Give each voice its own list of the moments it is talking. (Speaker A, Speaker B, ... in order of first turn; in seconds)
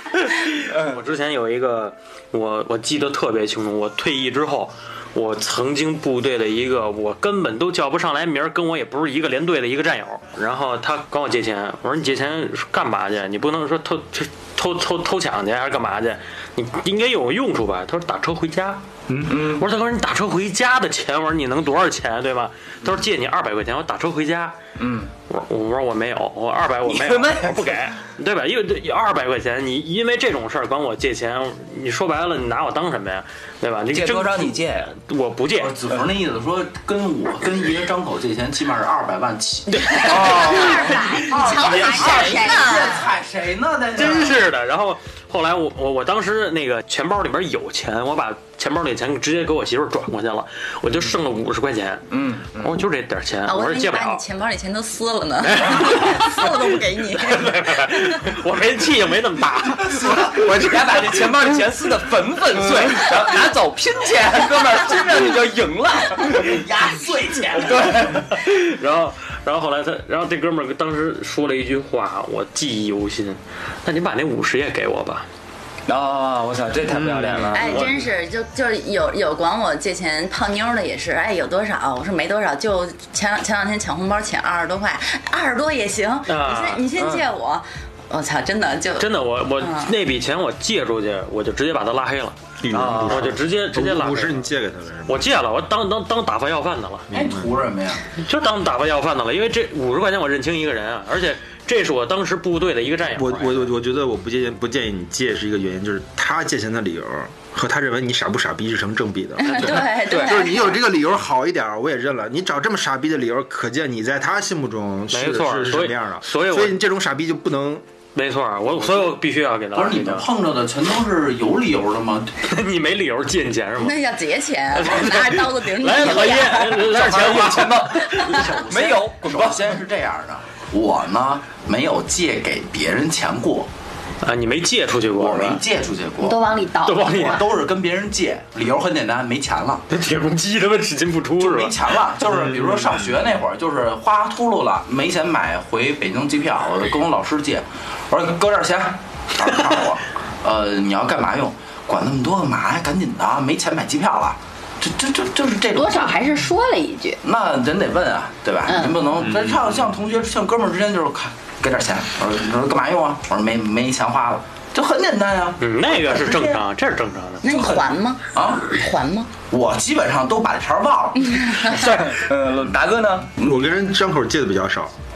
Speaker A: 0.3-24.6, 25.3-35.8, 40.0-41.1, 44.0-54.2, 55.4-56.5, 57.2-60.4, 67.7-75.3, 76.9-78.0, 86.3-86.8, 89.0-92.4, 93.0-94.4, 95.1-97.1, 98.2-103.7, 115.1-116.8, 118.2-120.2, 122.4-124.0, 124.7-128.3, 134.2-135.6, 136.8-137.4, 139.9-141.8, 165.6-167.8
Speaker B: 0.6-1.0, 19.1-19.7, 24.8-25.1, 26.9-27.8, 33.9-34.9, 40.1-40.7, 52.1-52.8, 60.4-66.6, 75.9-77.9, 86.9-87.2, 92.7-93.3, 110.1-110.4, 126.8-129.7, 171.6-173.7
Speaker C: 35.5-44.4, 59.8-60.6, 66.2-68.1, 97.1-98.0, 119.7-122.4, 128.2-133.7, 135.2-136.4, 137.1-139.8, 141.4-156.2, 157.2-166.6, 168.3-168.7, 169.5-171.4
Speaker D: 40.0-43.1, 136.2-137.5, 155.8-157.2
Speaker E: 42.3-42.9, 53.5-58.2, 77.5-89.9, 109.4-110.8, 123.8-127.2, 158.7-159.0, 167.4-169.3, 171.3-172.0
Speaker F: 92.6-95.3, 97.1-97.5, 103.2-117.8, 173.4-174.9